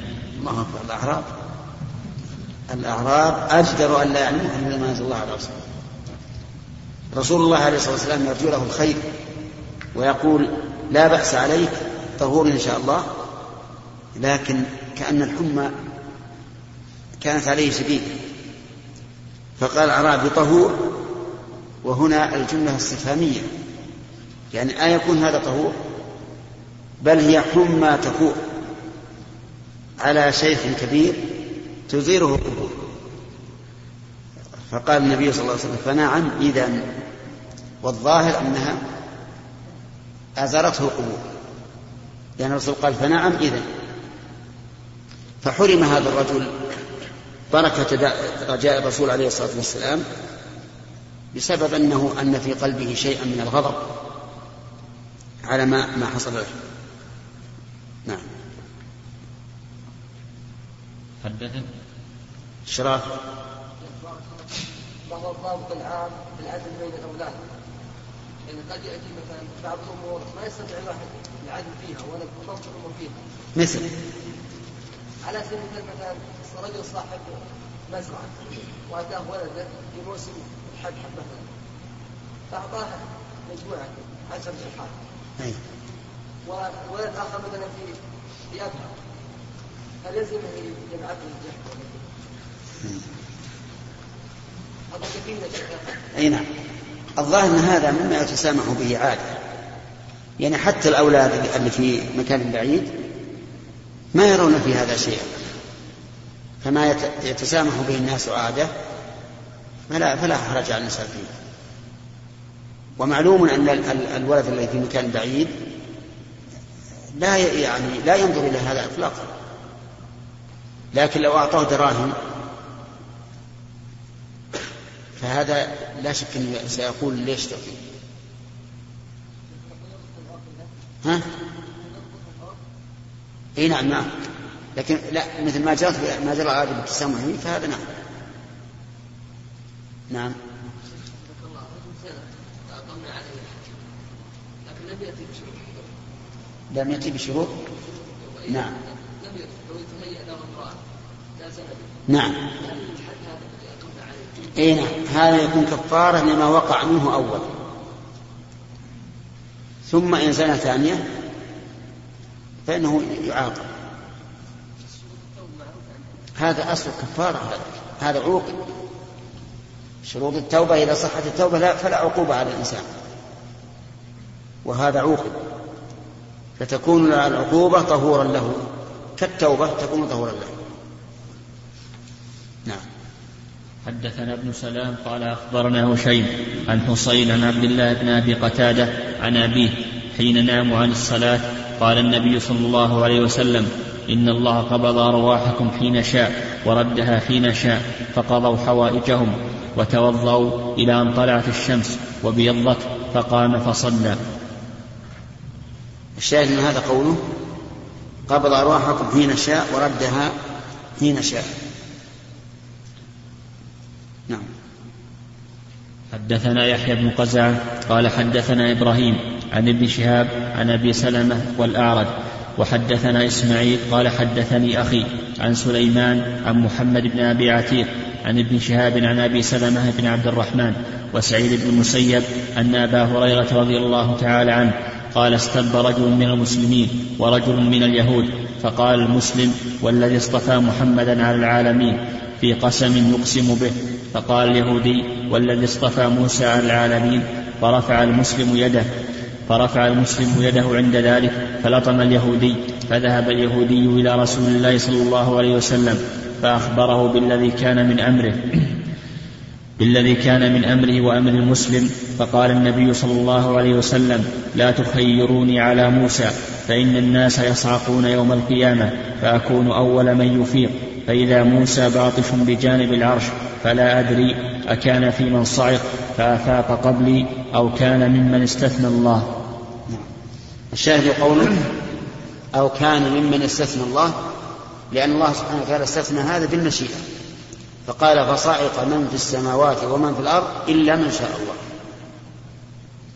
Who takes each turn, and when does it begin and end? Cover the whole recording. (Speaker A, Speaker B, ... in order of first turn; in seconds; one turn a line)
Speaker A: 0.4-1.3
Speaker A: 2.7-5.6
Speaker A: 7.1-9.1
Speaker A: 9.9-13.1
Speaker A: 14.2-15.8
Speaker A: 17.2-18.2
Speaker A: 19.6-20.9
Speaker A: 21.8-23.5
Speaker A: 24.5-25.8
Speaker A: 27.0-28.4
Speaker A: 30.0-31.4
Speaker A: 31.9-32.8
Speaker A: 34.7-36.9
Speaker A: 37.8-38.8
Speaker A: 40.4-41.2
Speaker A: 42.4-43.6
Speaker A: 45.4-46.5
Speaker A: 47.5-50.1
Speaker A: 51.3-53.9
Speaker A: 55.5-56.5
Speaker B: 61.2-61.7
Speaker A: 62.7-63.1
Speaker C: 63.8-64.5
Speaker C: 65.0-67.4
Speaker C: 68.5-73.2
Speaker A: 73.6-73.9
Speaker C: 75.2-81.5
Speaker C: 82.5-85.0
Speaker C: 86.5-88.0
Speaker C: 88.5-88.9
Speaker C: 90.0-92.1
Speaker C: 94.9-95.9
Speaker A: 96.1-96.5
Speaker A: 97.2-99.4
Speaker A: 100.4-102.9
Speaker A: 104.1-105.3
Speaker A: 106.6-108.7
Speaker A: 109.9-111.3
Speaker A: 113.0-115.5
Speaker A: 117.2-119.3
Speaker A: 120.9-122.2
Speaker A: 125.2-127.8
Speaker C: 129.5-130.7
Speaker C: 131.7-132.6
Speaker A: 133.6-134.1
Speaker A: 134.8-137.9
Speaker A: 140.1-140.4
Speaker C: 140.9-143.7
Speaker C: 144.6-145.9
Speaker A: 146.7-147.5
Speaker C: 147.9-150.8
Speaker A: 148.5-148.7
Speaker C: 151.4-151.9
Speaker A: 152.1-152.4
Speaker C: 152.6-154.5
Speaker A: 154.6-157.5
Speaker A: 159.9-161.0
Speaker A: 162.7-163.7
Speaker C: 164.9-166.1
Speaker A: 166.4-168.6
Speaker A: 170.1-172.9
Speaker A: 174.7-175.4
Speaker A: 176.6-178.7
Speaker A: 179.2-180.5
Speaker B: 183.8-204.2
Speaker A: 206.2-207.2
Speaker A: 208.3-210.3
Speaker A: 211.0-211.5
Speaker B: 216.1-248.9
Speaker B: 249.5-258.8
Speaker B: 259.8-279.4
Speaker A: 280.7-281.7
Speaker A: 282.5-284.2
Speaker A: 284.9-287.1
Speaker A: 287.9-291.6